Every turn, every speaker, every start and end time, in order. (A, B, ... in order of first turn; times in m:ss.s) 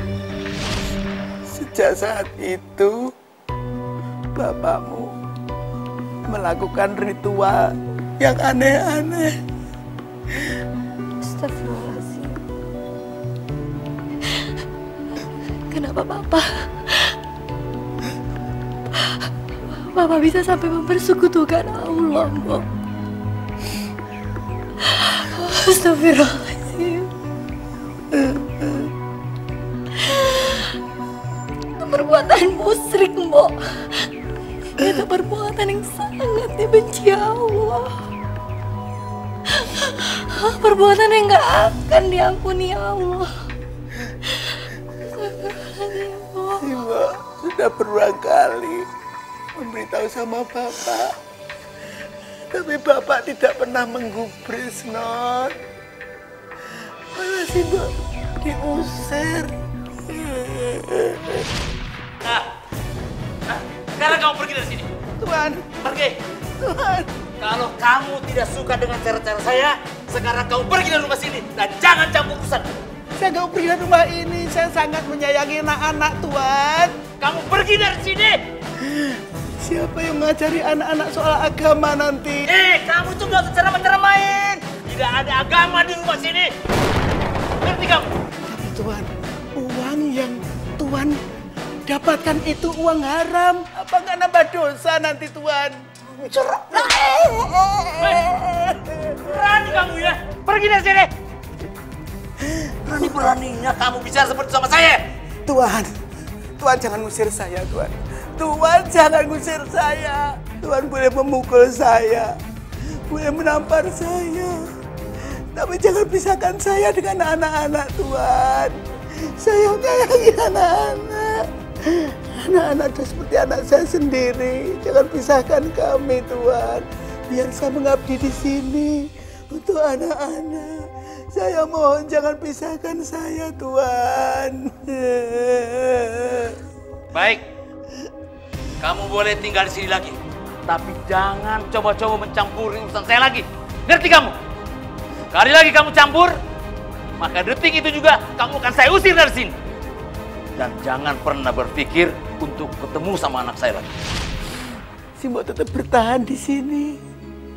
0:01.5-0:03.0 A
0:04.4-0:05.1 A
0:06.3-0:07.7 A
0:08.2-0:09.3 A
0:11.2-0:12.3 B
0:15.7-0:17.1 B
0:19.7-0:22.6 B
0:24.8-0:27.1 B
0:30.0-0:30.6 B
0:31.8-0:34.1 B
0:34.8-0:37.9 B
0:39.6-0:43.3 B
0:45.1-0:46.6 B
0:46.6-0:48.9 A
0:49.6-0:51.1 A
0:52.5-0:55.5 A
0:57.2-0:57.9 A
0:58.4-0:59.5 A
1:00.1-1:01.4 A
1:03.5-1:04.9 C
1:05.2-1:05.7 A
1:05.8-1:06.2 C
1:06.6-1:07.1 A
1:07.4-1:12.7 C
1:13.2-1:17.0 A
1:17.2-1:18.4 C
1:18.9-1:22.5 A
1:22.5-1:26.5 C
1:27.6-1:28.2 C
1:28.5-1:31.2 A
1:31.9-1:35.8 A
1:36.7-1:37.2 A
1:38.0-1:38.7 A
1:39.2-1:41.1 C
1:42.9-1:43.4 A
1:42.9-1:45.0 C
1:45.5-1:45.9 A
1:46.6-1:52.3 A
1:53.1-1:54.6 A
1:55.6-1:58.8 A
1:59.4-2:01.4 A
2:02.4-2:10.8 A
2:11.4-2:16.6 A
2:17.1-2:17.4 C
2:18.8-2:24.3 C
2:25.3-2:26.4 C
2:27.2-2:29.5 C
2:30.6-2:33.9 C
2:35.2-2:37.0 A